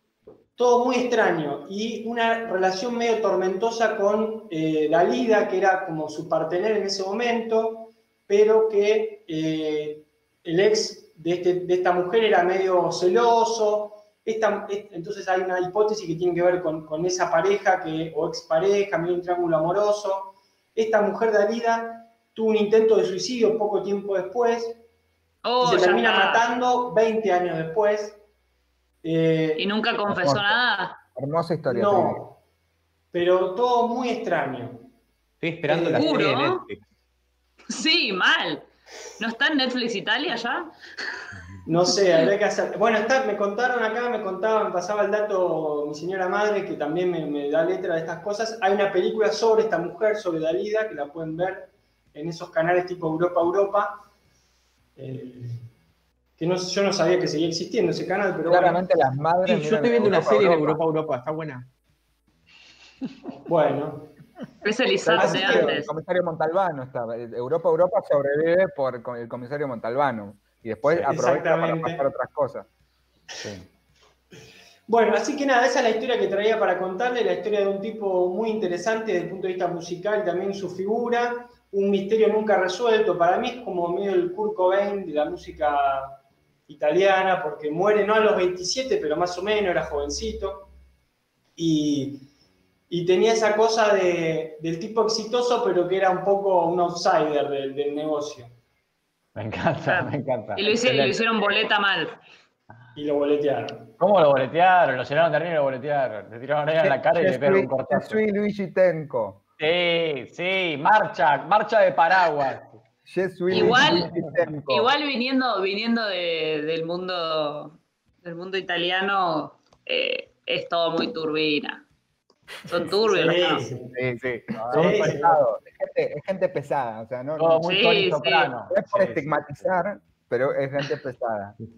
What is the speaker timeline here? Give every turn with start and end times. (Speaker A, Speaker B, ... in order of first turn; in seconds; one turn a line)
Speaker A: 0.6-24.8
Speaker B: 25.4-26.4
Speaker A: 25.6-28.2
Speaker A: 29.0-29.7
Speaker B: 29.6-31.0
Speaker C: 30.1-30.6
Speaker C: 31.2-32.2
Speaker A: 31.7-32.4
Speaker A: 33.1-34.9
Speaker D: 35.4-36.8
Speaker A: 35.7-36.3
Speaker B: 36.0-36.6
Speaker B: 37.7-40.7
Speaker A: 41.7-54.0
Speaker A: 55.0-55.6
Speaker A: 56.4-58.8
Speaker C: 58.5-60.8
Speaker D: 59.4-61.7
Speaker A: 63.5-64.1
Speaker B: 64.6-65.9
Speaker C: 65.0-72.7
Speaker A: 65.2-65.8
Speaker E: 70.8-71.2
Speaker A: 71.1-72.0
Speaker E: 73.4-73.7
Speaker A: 74.9-90.7
Speaker A: 91.6-92.3
Speaker A: 92.9-98.5
Speaker E: 99.3-101.3
Speaker B: 99.8-102.2
Speaker A: 103.0-103.9
Speaker E: 104.0-108.2
Speaker C: 106.8-109.4
Speaker E: 109.6-112.8
Speaker C: 113.1-114.9
Speaker B: 113.5-114.1
Speaker E: 113.5-114.4
Speaker B: 114.7-121.8
Speaker B: 122.7-123.7
Speaker A: 123.0-123.9
Speaker C: 123.9-127.8
Speaker E: 124.5-125.4
Speaker A: 124.7-125.3
Speaker E: 127.4-129.3
Speaker B: 127.7-128.5
Speaker C: 128.7-131.6